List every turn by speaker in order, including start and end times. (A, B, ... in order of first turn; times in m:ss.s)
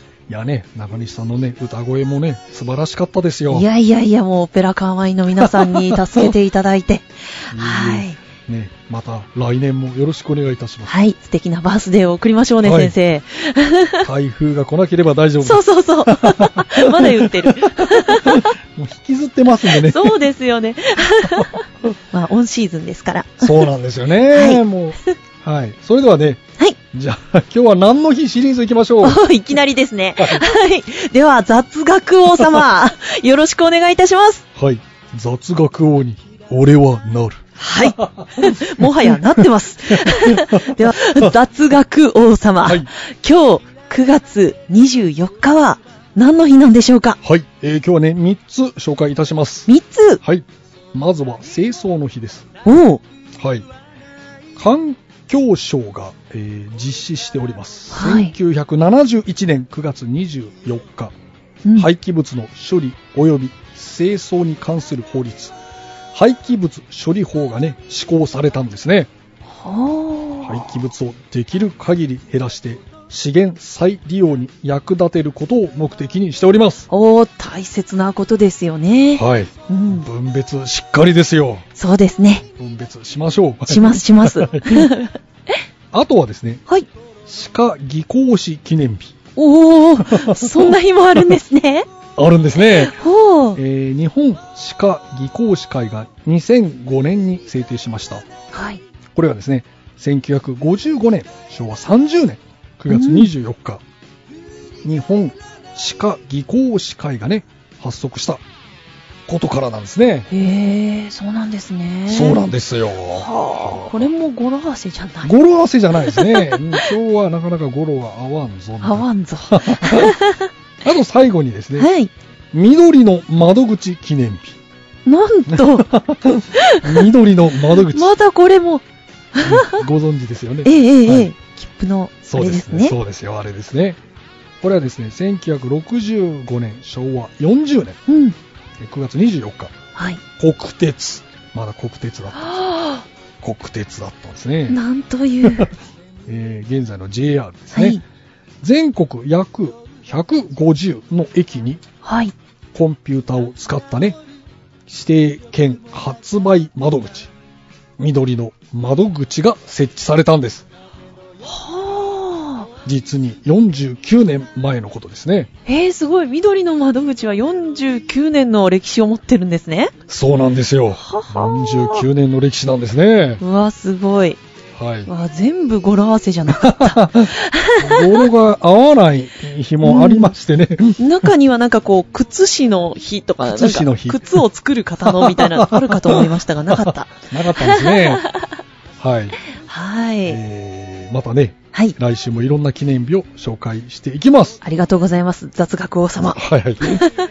0:00.3-0:03.7 A
0:03.5-0:08.2 B
0:05.4-0:06.3 A
0:07.5-0:11.0 A
0:10.9-0:14.1 B
0:12.6-0:12.9 A
0:14.0-0:20.2 A
0:15.4-0:18.5 B
0:19.7-0:23.7 B
0:23.4-0:29.2 A
0:24.3-0:24.6 B
0:29.0-0:34.4 B
0:30.2-0:30.5 A
0:34.6-0:39.2 A
0:37.6-0:47.2 B
0:39.9-0:41.3 A
0:42.6-0:42.9 A
0:47.2-0:49.7 A
0:49.7-0:50.2 B
0:50.2-0:52.5 A
0:52.6-0:53.0 B
0:53.4-0:53.7 A
0:54.6-1:01.1 A
0:57.9-0:58.3 B
1:01.6-1:01.9 B
1:01.8-1:05.6 A
1:06.1-1:09.1 A
1:09.5-1:10.7 B
1:10.4-1:16.9 A
1:16.9-1:20.1 B
1:19.2-1:21.7 A
1:21.8-1:22.4 B
1:22.6-1:24.9 A
1:23.7-1:25.2 B
1:25.9-1:26.6 A
1:27.3-1:29.2 A
1:29.4-1:31.9 B
1:30.0-1:31.4 A
1:32.2-1:33.0 A
1:32.7-1:33.6 B
1:33.5-1:38.2 A
1:38.5-1:38.8 B
1:39.2-1:43.8 A
1:42.9-1:43.3 B
1:44.8-1:48.4 A
1:49.3-1:50.3 A
1:50.3-1:52.4 B
1:52.1-1:54.1 A
1:53.1-1:55.3 B
1:55.2-2:00.2 A
1:56.0-1:56.9 B
1:58.8-2:00.5 B
2:00.8-2:01.9 A
2:01.8-2:02.1 B
2:02.5-2:04.6 A
2:05.1-2:05.9 B
2:05.5-2:08.1 A
2:06.4-2:07.1 B
2:07.8-2:09.9 B
2:09.4-2:11.3 A
2:10.6-2:13.0 B
2:12.3-2:14.0 A
2:14.6-2:18.0 A
2:18.1-2:18.4 B
2:18.8-2:19.8 A
2:20.0-2:20.2 B
2:20.4-2:22.6 A
2:22.4-2:23.0 B
2:23.4-2:24.8 A
2:24.7-2:25.7 B
2:25.4-2:25.7 A
2:26.3-2:28.0 A
2:27.8-2:28.0 B
2:28.6-2:31.8 A
2:32.0-2:32.3 B
2:32.7-2:34.2 A
2:34.9-2:37.3 A
2:38.0-2:40.7 A
2:41.4-2:42.7 B
2:42.8-2:45.5 A
2:45.7-2:49.9 B
2:50.1-2:53.4 A
2:51.0-2:52.0 B
2:53.4-2:54.4 B
2:54.8-2:55.1 A
2:55.1-2:58.0 B
2:56.5-3:01.3 A
2:59.8-3:00.3 B
3:01.0-3:08.4 B
3:03.4-3:04.5 A
3:05.0-3:08.3 A
3:09.0-3:09.4 A
3:09.7-3:10.4 B
3:10.3-3:14.6 A
3:14.6-3:17.2 B
3:16.4-3:17.1 A